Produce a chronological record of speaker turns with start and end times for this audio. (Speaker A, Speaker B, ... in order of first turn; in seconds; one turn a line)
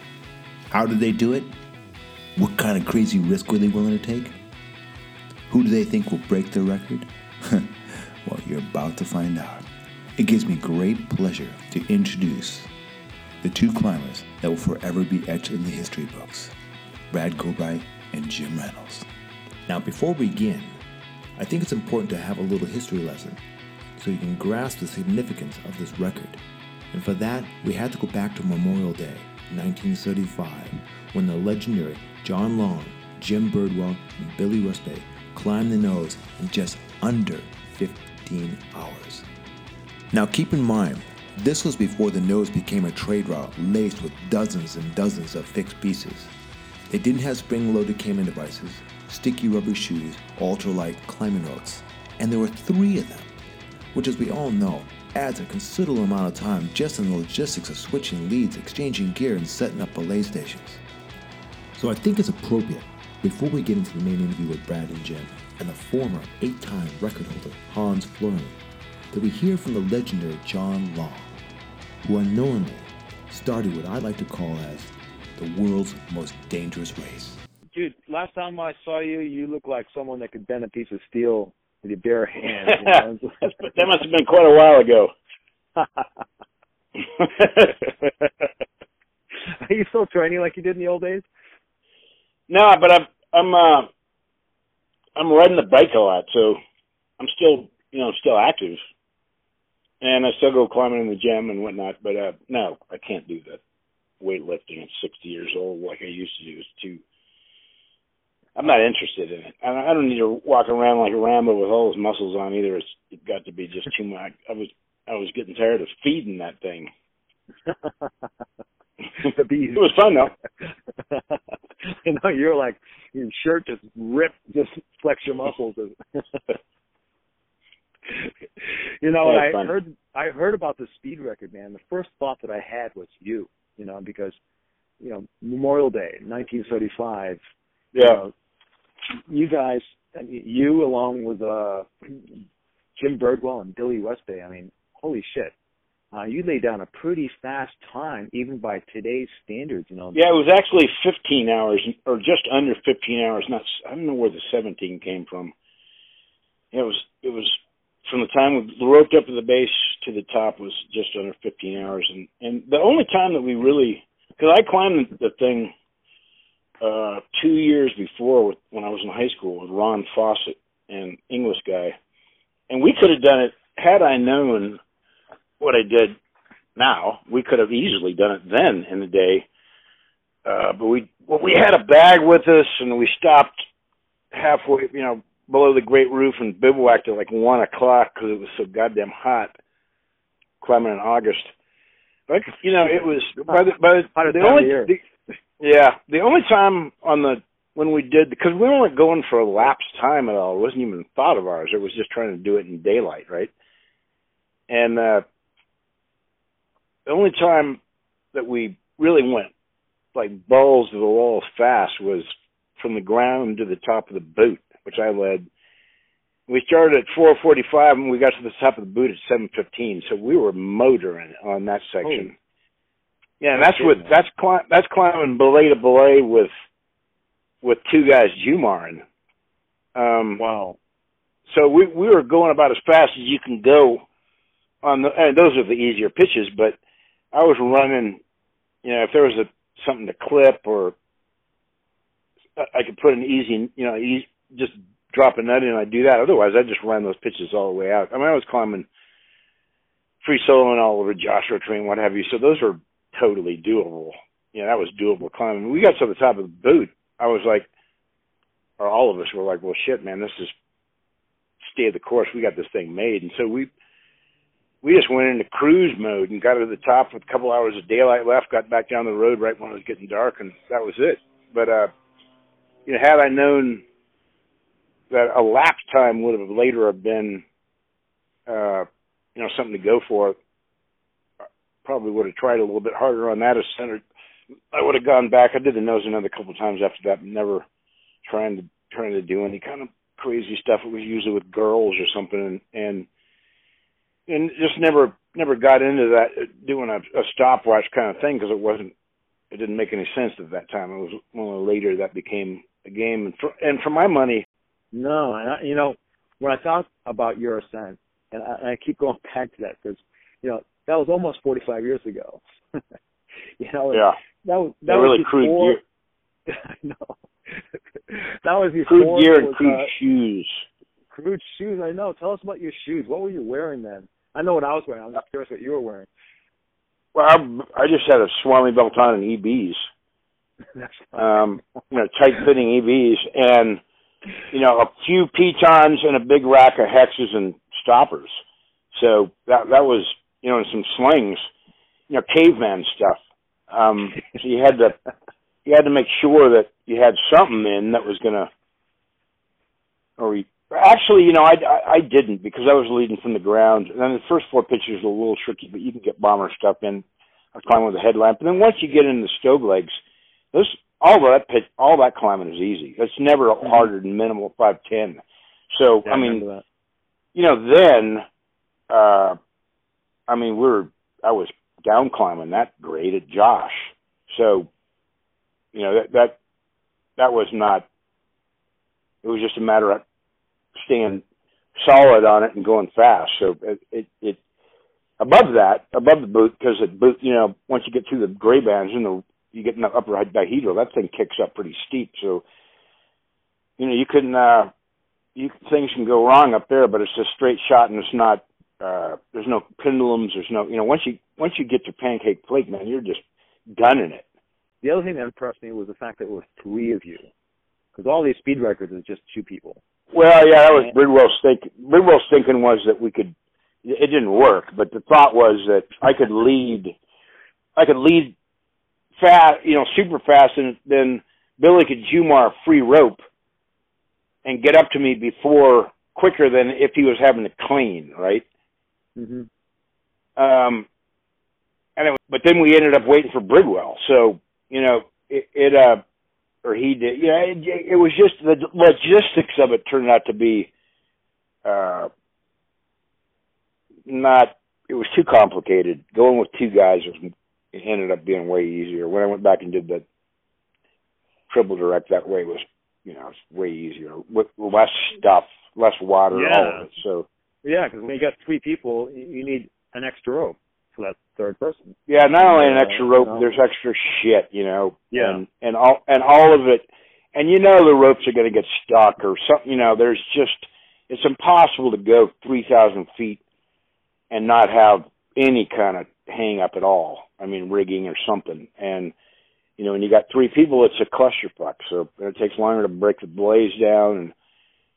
Speaker A: 0.7-1.5
Speaker A: 2.4-4.4
Speaker A: 5.5-12.7
Speaker A: 13.4-16.6
Speaker A: 17.1-19.1
Speaker A: 19.7-20.8
Speaker A: 21.4-23.4
Speaker A: 23.9-39.3
Speaker A: 40.1-46.3
Speaker A: 46.9-53.3
Speaker A: 53.9-60.8
Speaker A: 61.8-68.6
Speaker A: 69.1-71.3
Speaker A: 72.0-77.4
Speaker B: 77.7-83.3
Speaker C: 82.7-85.1
Speaker B: 87.5-87.7
Speaker B: 89.6-91.3
Speaker C: 92.5-93.9
Speaker C: 95.2-96.6
Speaker C: 97.2-98.8
Speaker C: 100.0-103.6
Speaker C: 104.2-107.0
Speaker C: 108.5-116.9
Speaker B: 119.2-119.9
Speaker C: 119.7-120.3
Speaker B: 121.9-126.0
Speaker B: 129.0-134.4
Speaker C: 129.2-129.7
Speaker B: 135.0-137.4
Speaker C: 137.9-138.2
Speaker B: 137.9-138.3
Speaker B: 139.3-142.2
Speaker B: 142.9-145.5
Speaker B: 146.1-150.2
Speaker C: 150.1-155.5
Speaker C: 156.7-165.7
Speaker C: 166.8-171.9
Speaker C: 172.7-174.8
Speaker C: 175.6-176.2
Speaker C: 176.8-179.4
Speaker C: 180.4-183.6
Speaker C: 184.3-189.5
Speaker C: 190.6-191.5
Speaker C: 192.3-195.0
Speaker B: 192.9-193.6
Speaker B: 194.1-194.9
Speaker C: 195.6-203.5
Speaker C: 204.7-205.2
Speaker C: 207.1-207.8
Speaker C: 208.3-209.5
Speaker C: 210.1-215.5
Speaker C: 216.5-222.3
Speaker B: 222.0-222.3
Speaker C: 223.4-226.5
Speaker B: 223.5-224.1
Speaker C: 227.6-229.0
Speaker C: 229.9-230.4
Speaker B: 230.4-230.8
Speaker C: 231.5-234.0
Speaker C: 234.8-236.8
Speaker C: 237.3-238.2
Speaker C: 238.8-240.9
Speaker C: 242.6-248.9
Speaker C: 250.2-257.7
Speaker C: 258.8-260.5
Speaker C: 261.6-263.7
Speaker C: 264.8-271.9
Speaker C: 272.9-273.8
Speaker C: 275.1-277.4
Speaker C: 278.5-280.4
Speaker C: 281.9-284.0
Speaker C: 284.7-287.6
Speaker C: 288.2-293.1
Speaker C: 294.3-298.9
Speaker C: 299.5-304.4
Speaker B: 304.9-312.4
Speaker B: 313.6-315.8
Speaker C: 313.9-314.2
Speaker C: 314.9-315.8
Speaker B: 316.5-317.5
Speaker B: 318.1-319.9
Speaker C: 318.9-320.6
Speaker B: 321.1-326.1
Speaker C: 327.1-329.8
Speaker C: 331.2-333.8
Speaker C: 334.5-338.3
Speaker C: 338.9-341.4
Speaker C: 342.1-343.2
Speaker C: 343.7-345.0
Speaker C: 345.6-348.5
Speaker C: 350.2-357.0
Speaker C: 357.6-359.9
Speaker C: 360.5-366.4
Speaker B: 366.1-366.6
Speaker C: 367.4-368.2
Speaker C: 368.9-369.4
Speaker C: 370.3-374.7
Speaker C: 375.7-376.4
Speaker C: 377.2-377.9
Speaker C: 379.2-380.0
Speaker C: 380.8-381.2
Speaker C: 381.8-384.4
Speaker C: 385.2-392.4
Speaker C: 393.8-394.7
Speaker C: 395.4-403.2
Speaker C: 403.8-404.2
Speaker B: 404.8-407.3
Speaker B: 407.9-409.8
Speaker C: 410.1-413.3
Speaker C: 413.9-416.9
Speaker C: 417.8-418.3
Speaker C: 419.2-423.2
Speaker C: 424.4-428.4
Speaker B: 429.2-429.5
Speaker C: 430.4-430.9
Speaker C: 432.0-436.0
Speaker C: 436.6-440.7
Speaker C: 441.6-442.1
Speaker C: 444.1-450.0
Speaker C: 451.5-457.2
Speaker B: 456.3-456.9
Speaker B: 457.6-463.5
Speaker C: 462.1-473.4
Speaker B: 465.1-465.4
Speaker C: 474.3-479.1
Speaker C: 479.8-484.3